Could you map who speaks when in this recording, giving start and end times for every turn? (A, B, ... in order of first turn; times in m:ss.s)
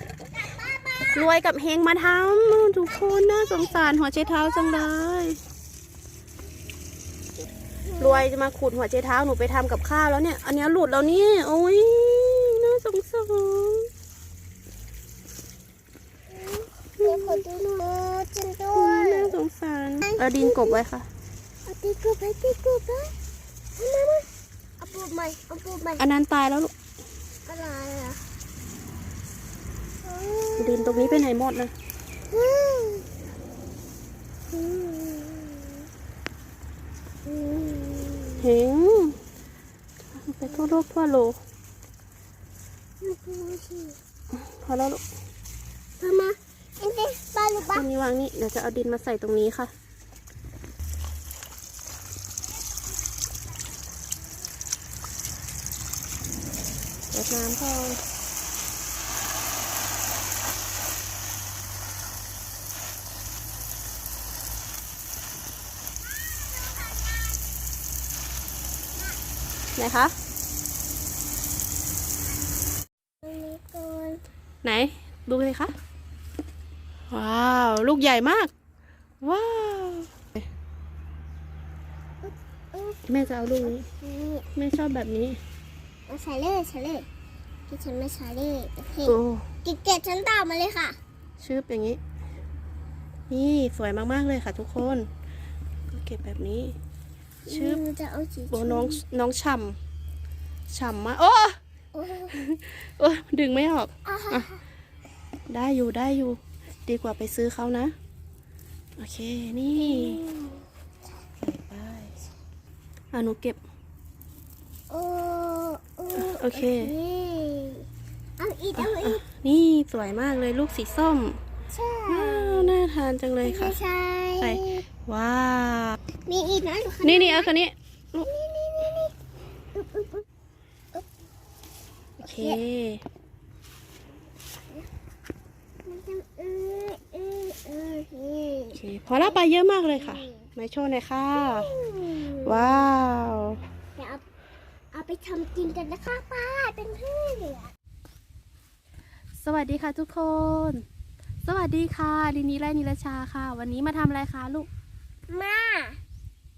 0:00.3-0:01.2 A
0:01.1-0:05.4 B
0:04.2-0:04.9 A
0:07.8-0:08.2 A
0:08.0-0:13.9 B
0:16.3-0:19.3 A
0:17.0-0:17.4 B
0:18.7-0:21.1 B
0:20.0-0:20.8 A
0:21.6-0:23.1 A
0:23.8-0:24.3 A
0:24.8-0:26.0 A
0:26.0-0:26.7 B
0:27.5-0:28.2 A
0:30.0-0:31.2 A
0:30.6-0:31.7 B
0:32.3-0:33.1 A
0:34.5-0:35.8 A
0:37.2-0:38.4 A
0:38.4-0:39.2 B
0:40.2-0:41.4 B
0:40.5-0:40.8 A
0:43.0-0:44.0 A
0:44.3-0:45.0 B
0:46.0-0:47.9 A
0:47.6-0:49.7 B
0:57.1-0:58.0 B
1:06.2-1:07.4 A
1:09.8-1:10.1 B
1:13.2-1:14.2 A
1:14.6-1:15.7 B
1:17.1-1:18.5 B
1:19.2-1:20.4 B
1:22.2-1:24.5 A
1:23.1-1:23.8 B
1:24.6-1:25.4 B
1:26.1-1:27.1 A
1:27.7-1:31.0 A
1:29.0-1:29.5 B
1:31.4-1:32.0 B
1:33.3-1:35.1 B
1:35.9-1:36.8 B
1:37.4-1:39.0 A
1:37.5-1:37.8 B
1:38.5-1:39.8 B
1:40.7-1:41.6 B
1:41.9-1:42.3 A
1:42.3-1:44.5 B
1:44.0-1:44.6 A
1:45.5-1:47.9 B
1:49.0-1:50.2 B
1:49.8-1:50.6 A
1:51.4-1:52.1 B
1:53.1-1:53.6 B
1:54.9-1:57.9 A
1:56.2-1:56.9 B
1:58.4-1:59.2 A
1:58.8-2:01.4 B
2:01.7-2:02.8 A
2:02.1-2:03.8 B
2:03.4-2:04.8 A
2:04.4-2:06.0 B
2:06.2-2:07.5 A
2:07.0-2:08.3 B
2:08.2-2:09.2 A
2:09.7-2:10.2 A
2:12.2-2:12.6 A
2:12.2-2:13.0 B
2:15.8-2:19.4 A
2:18.8-2:21.7 B
2:19.9-2:20.4 A
2:21.3-2:22.9 A
2:22.3-2:23.6 B
2:24.0-2:24.2 A
2:24.9-2:27.7 A
2:29.4-2:30.8 B
2:31.4-2:34.7 B
2:35.3-2:36.0 A